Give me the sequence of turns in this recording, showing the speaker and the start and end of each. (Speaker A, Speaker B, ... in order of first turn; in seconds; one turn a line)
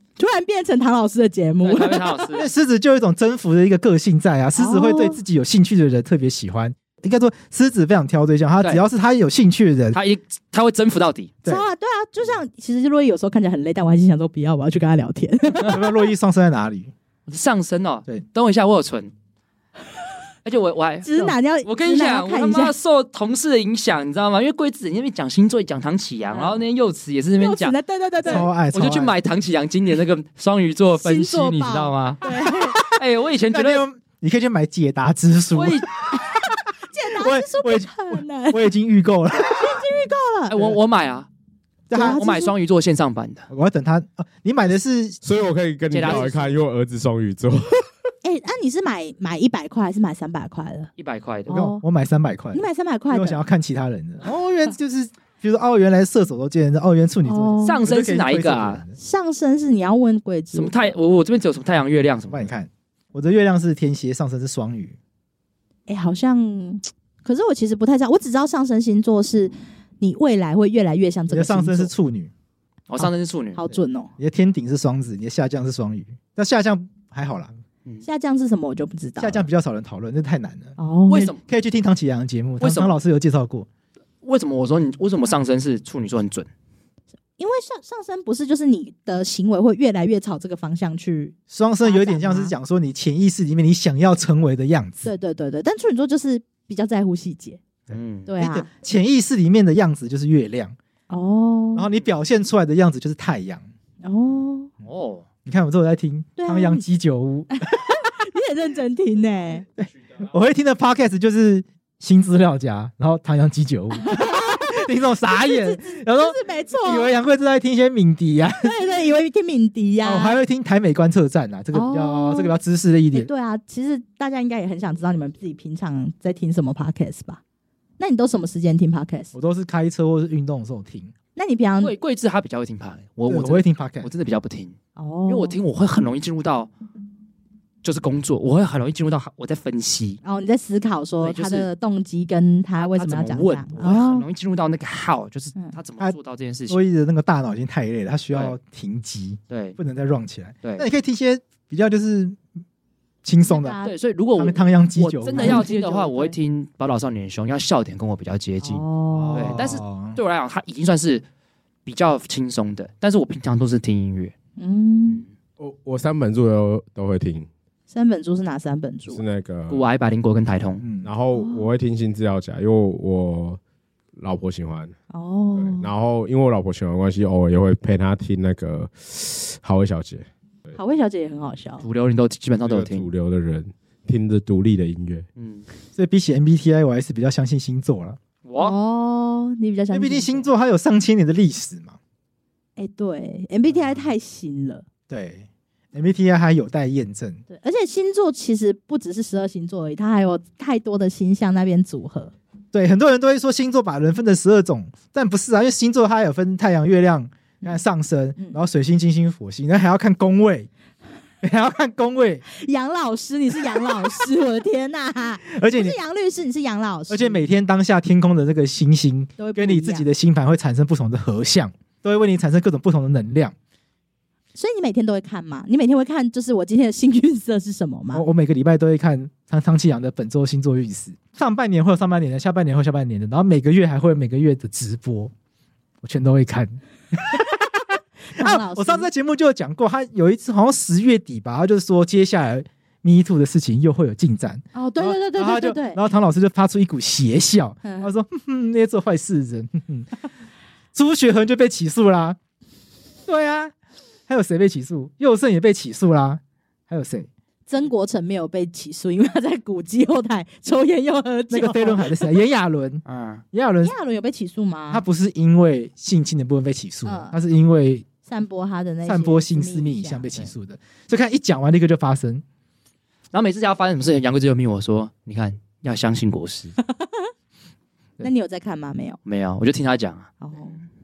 Speaker A: 0.2-2.2
Speaker B: 1.6-2.5
Speaker C: 2.3-10.0
Speaker A: 4.5-5.2
Speaker B: 9.9-11.3
Speaker A: 11.4-16.1
Speaker C: 15.7-16.9
Speaker B: 17.3-19.1
Speaker B: 20.4-32.2
Speaker A: 21.0-22.7
Speaker A: 26.3-26.6
Speaker A: 27.4-28.5
Speaker C: 28.2-29.1
Speaker A: 31.0-32.8
Speaker B: 32.8-33.8
Speaker C: 33.5-35.9
Speaker B: 35.5-35.9
Speaker A: 36.1-38.7
Speaker C: 37.1-39.8
Speaker A: 39.4-40.5
Speaker B: 40.5-41.3
Speaker C: 41.9-42.2
Speaker A: 41.9-42.5
Speaker B: 41.9-43.5
Speaker C: 43.5-45.2
Speaker D: 45.2-47.9
Speaker B: 45.9-46.6
Speaker A: 48.2-50.9
Speaker B: 51.0-51.6
Speaker A: 51.5-51.8
Speaker C: 51.5-59.0
Speaker A: 52.5-53.4
Speaker A: 57.2-57.8
Speaker B: 57.6-58.8
Speaker A: 59.0-60.9
Speaker B: 60.5-62.5
Speaker C: 62.3-65.0
Speaker A: 65.9-71.9
Speaker C: 71.3-72.3
Speaker B: 72.9-73.7
Speaker A: 73.5-74.1
Speaker C: 74.2-77.5
Speaker A: 78.0-79.4
Speaker C: 79.2-80.8
Speaker A: 80.8-81.3
Speaker B: 81.1-81.4
Speaker C: 81.4-83.7
Speaker B: 82.6-82.9
Speaker B: 84.2-86.5
Speaker A: 87.4-92.5
Speaker C: 91.5-95.1
Speaker A: 95.0-97.6
Speaker C: 97.9-100.8
Speaker B: 97.9-98.3
Speaker A: 98.2-98.7
Speaker A: 101.1-101.9
Speaker C: 101.7-103.7
Speaker A: 104.0-104.7
Speaker B: 104.8-105.2
Speaker C: 105.5-107.5
Speaker A: 106.4-106.8
Speaker A: 107.5-109.7
Speaker C: 109.8-118.7
Speaker A: 114.0-117.1
Speaker A: 118.6-120.4
Speaker C: 120.0-123.3
Speaker A: 121.7-122.5
Speaker A: 123.1-127.4
Speaker A: 128.0-129.3
Speaker C: 129.3-131.1
Speaker A: 131.3-131.9
Speaker B: 131.8-136.7
Speaker C: 133.3-134.1
Speaker A: 134.9-135.6
Speaker B: 137.8-140.2
Speaker A: 140.2-144.2
Speaker B: 141.2-141.7
Speaker B: 142.8-146.8
Speaker C: 146.7-152.4
Speaker B: 149.5-149.8
Speaker C: 153.2-153.8
Speaker A: 153.4-153.9
Speaker B: 153.8-161.2
Speaker C: 154.3-155.7
Speaker A: 155.2-156.3
Speaker A: 158.6-159.6
Speaker C: 159.1-160.2
Speaker B: 161.8-164.3
Speaker A: 164.6-165.2
Speaker D: 165.6-167.5
Speaker A: 167.9-169.2
Speaker D: 169.1-169.8
Speaker B: 169.7-170.8
Speaker C: 170.8-171.1
Speaker D: 171.0-173.6
Speaker A: 171.3-171.7
Speaker D: 174.2-174.9
Speaker A: 175.1-175.9
Speaker D: 175.5-180.8
Speaker A: 180.7-181.8
Speaker B: 181.8-183.1
Speaker D: 182.6-185.3
Speaker B: 185.3-185.7
Speaker C: 185.9-188.2
Speaker B: 188.4-188.7
Speaker A: 188.6-190.5
Speaker C: 189.9-192.0
Speaker A: 192.8-194.8
Speaker C: 195.1-197.4
Speaker A: 197.5-202.3
Speaker C: 202.7-210.7
Speaker C: 211.4-212.4
Speaker A: 212.5-217.4
Speaker C: 215.4-215.9
Speaker C: 217.1-223.5
Speaker A: 219.4-220.1
Speaker A: 224.5-228.2
Speaker C: 228.1-235.3
Speaker C: 236.0-237.8
Speaker A: 238.3-239.1
Speaker C: 238.3-250.1
Speaker A: 244.7-246.0
Speaker A: 247.8-248.1
Speaker C: 250.9-252.4
Speaker C: 253.2-253.7
Speaker C: 254.3-257.3
Speaker A: 257.7-262.3
Speaker C: 261.5-263.9
Speaker B: 263.1-263.4
Speaker A: 263.8-265.0
Speaker C: 264.9-268.1
Speaker A: 267.1-267.4
Speaker A: 268.2-270.3
Speaker C: 269.0-272.4
Speaker B: 273.3-276.8
Speaker A: 276.8-277.3
Speaker A: 278.2-279.2
Speaker B: 279.2-280.3
Speaker A: 280.4-280.8